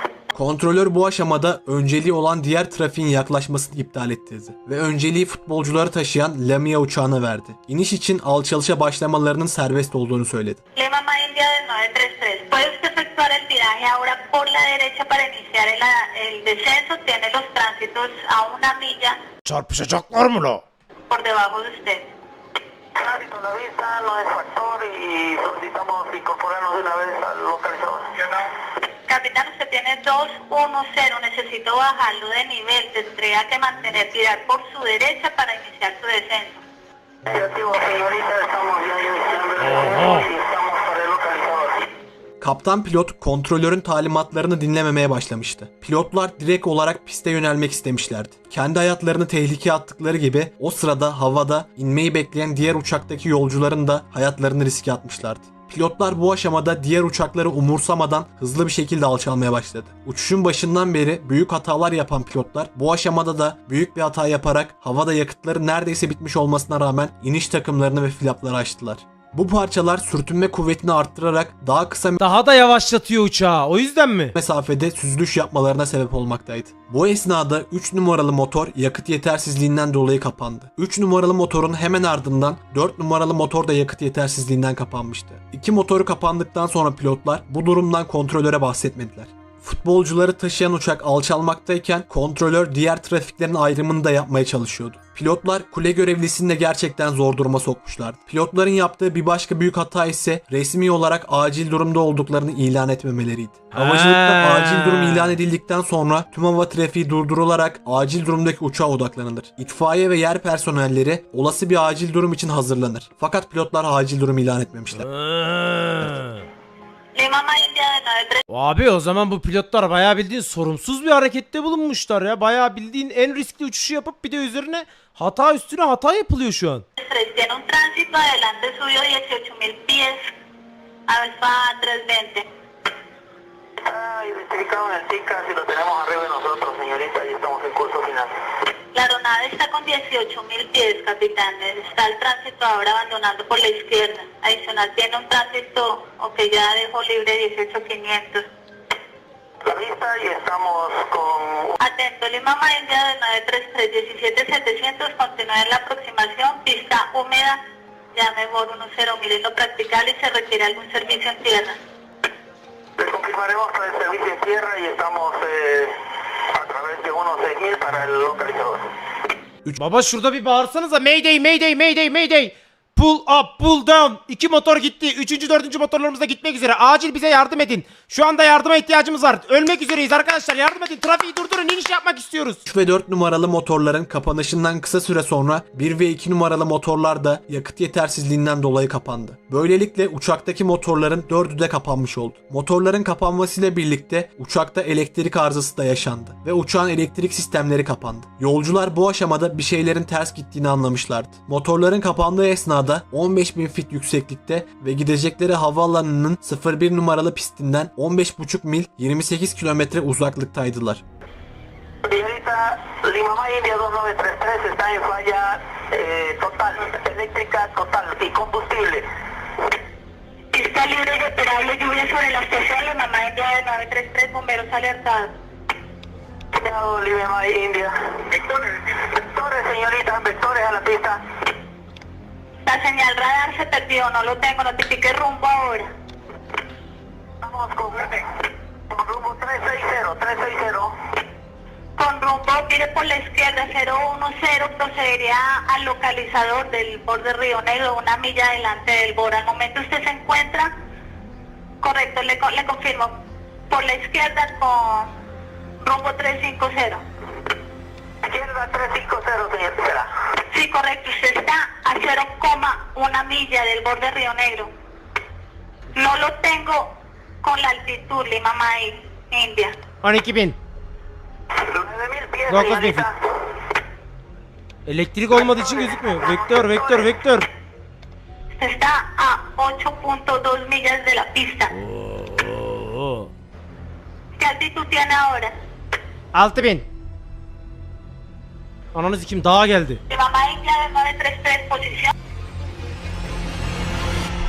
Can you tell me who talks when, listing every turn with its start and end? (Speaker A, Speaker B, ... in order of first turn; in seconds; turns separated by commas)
Speaker A: 0.3-10.6, Speaker B: 10.8-19.2, Speaker C: 19.4-20.6, Speaker B: 21.1-22.1, Speaker D: 23.0-28.4, Speaker B: 29.1-36.6, Speaker D: 37.2-41.9, Speaker C: 39.6-40.3, Speaker A: 42.4-72.2, Speaker C: 72.2-74.3, Speaker A: 74.3-115.1, Speaker C: 103.7-105.4, Speaker C: 115.0-116.5, Speaker B: 117.2-118.4, Speaker C: 118.5-126.8, Speaker B: 127.0-130.3, Speaker B: 131.1-132.5, Speaker D: 133.8-138.3, Speaker B: 138.9-148.5, Speaker D: 149.7-151.8, Speaker B: 151.8-157.6, Speaker B: 158.2-161.8, Speaker D: 163.0-168.9, Speaker C: 169.8-182.6, Speaker A: 182.7-211.0, Speaker D: 212.0-219.1, Speaker B: 220.5-225.3, Speaker D: 226.5-231.2, Speaker B: 232.7-235.9, Speaker D: 237.4-238.3, Speaker D: 238.9-240.9, Speaker B: 242.0-250.7, Speaker B: 251.8-253.2, Speaker B: 253.7-255.1, Speaker B: 255.8-257.0, Speaker D: 258.2-260.1, Speaker B: 260.5-264.7, Speaker B: 265.9-269.8, Speaker C: 270.0-270.6, Speaker D: 271.6-273.2, Speaker C: 272.5-273.1, Speaker C: 274.9-277.5, Speaker D: 275.3-277.1, Speaker B: 278.5-281.7, Speaker C: 281.8-283.3, Speaker B: 284.4-285.5, Speaker C: 286.3-286.9, Speaker C: 288.9-290.0, Speaker B: 290.1-292.1